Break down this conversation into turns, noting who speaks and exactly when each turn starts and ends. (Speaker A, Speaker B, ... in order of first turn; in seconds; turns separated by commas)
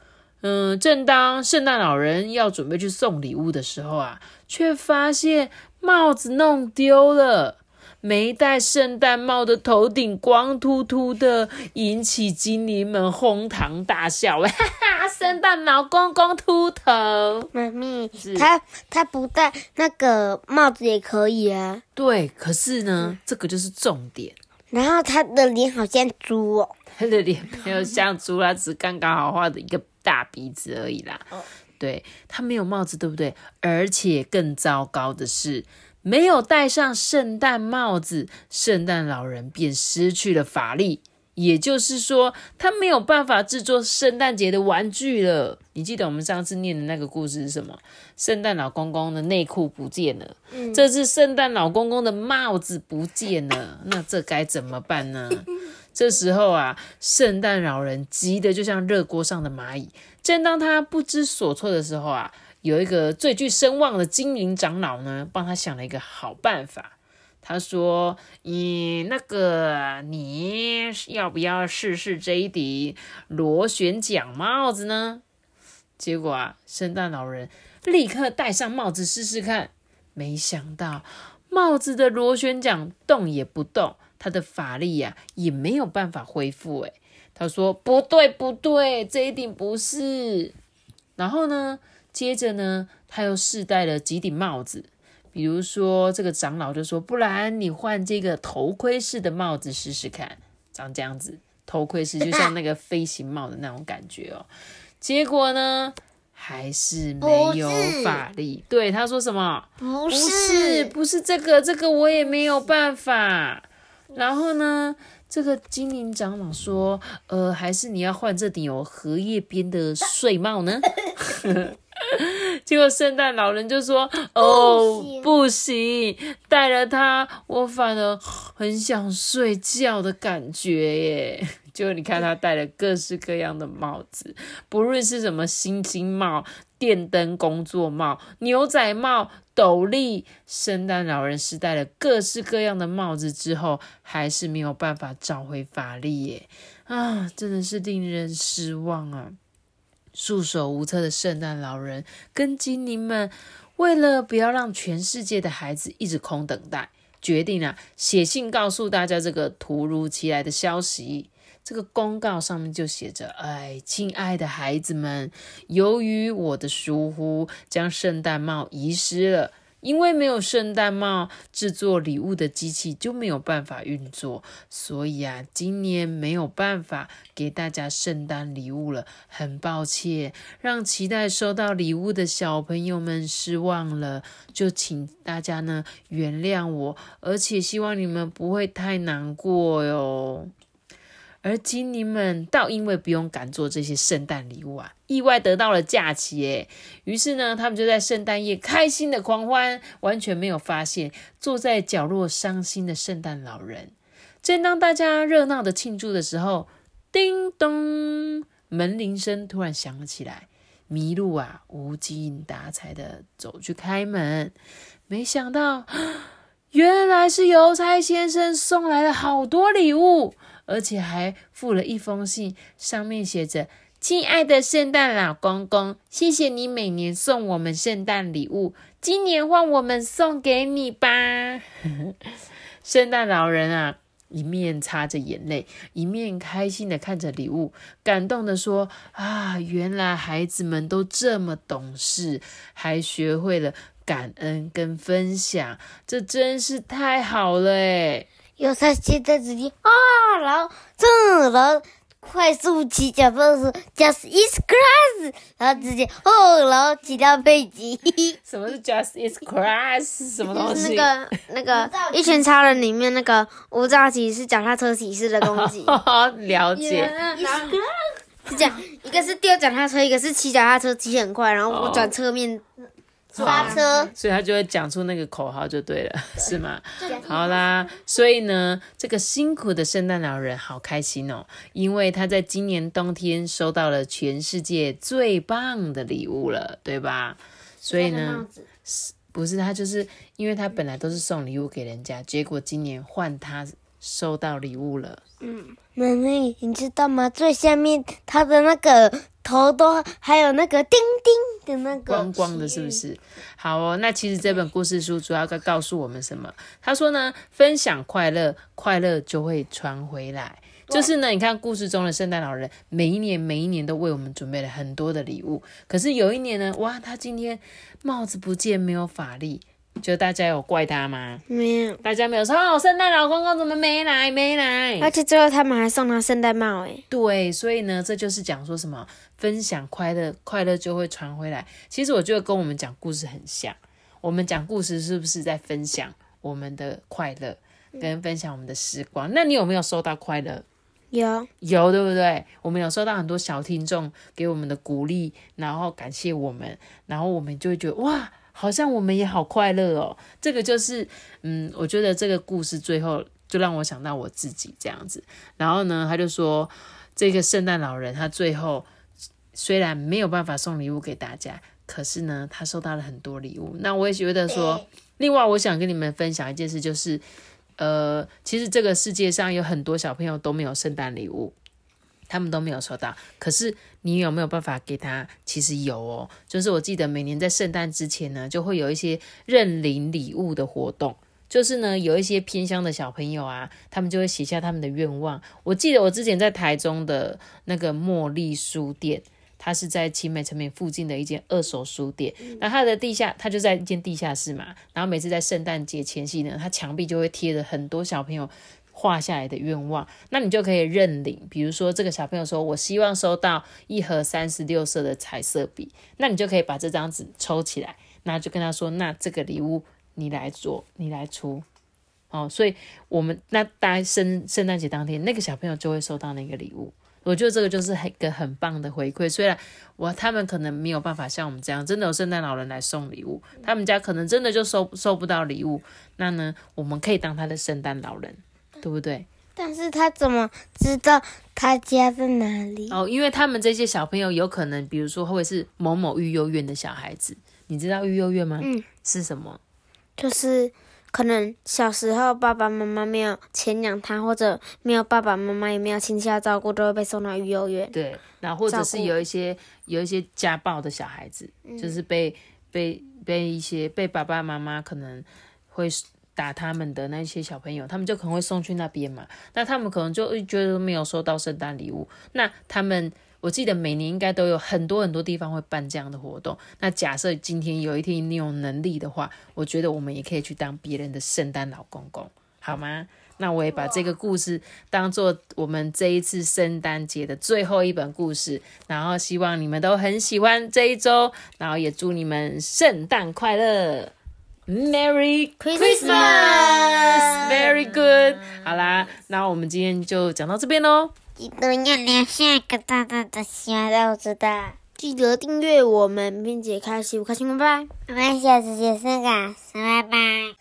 Speaker A: 0.4-17.5, Speaker B: 17.5-21.8, Speaker A: 18.2-18.5, Speaker A: 22.0-24.4, Speaker B: 24.7-26.7, Speaker A: 26.9-31.2, Speaker A: 31.8-75.2, Speaker C: 50.5-50.8, Speaker A: 76.0-90.5, Speaker A: 91.2-104.5, Speaker B: 102.2-102.5, Speaker A: 105.0-149.4, Speaker B: 107.2-108.2, Speaker B: 109.8-110.9, Speaker B: 124.4-125.3, Speaker A: 150.1-190.5, Speaker A: 191.4-214.6, Speaker A: 215.1-232.3, Speaker A: 232.8-248.3, Speaker B: 248.6-258.4, Speaker A: 258.4-261.1, Speaker C: 260.5-266.0, Speaker B: 261.7-262.8, Speaker A: 265.4-267.2, Speaker B: 266.8-267.9, Speaker C: 268.5-272.6, Speaker A: 271.7-272.1, Speaker A: 273.3-295.2, Speaker B: 273.4-274.1, Speaker C: 273.4-273.9, Speaker B: 277.0-277.6, Speaker C: 288.0-288.4, Speaker B: 295.4-303.0, Speaker A: 302.1-321.4, Speaker C: 321.5-322.0, Speaker A: 322.0-325.1, Speaker C: 325.0-327.0, Speaker A: 327.1-340.6, Speaker C: 341.1-341.5, Speaker A: 341.6-358.9, Speaker A: 359.5-367.2, Speaker B: 364.5-364.8, Speaker A: 367.8-371.6, Speaker A: 372.3-411.6, Speaker A: 412.3-429.3, Speaker B: 429.6-433.0, Speaker A: 432.9-439.6, Speaker B: 438.6-438.9, Speaker C: 440.2-447.9, Speaker A: 447.9-484.1, Speaker C: 448.7-449.1, Speaker C: 451.7-452.0, Speaker A: 484.7-491.1, Speaker C: 485.6-486.4, Speaker B: 485.7-487.6, Speaker B: 491.4-494.8, Speaker C: 495.0-497.9, Speaker B: 498.1-500.5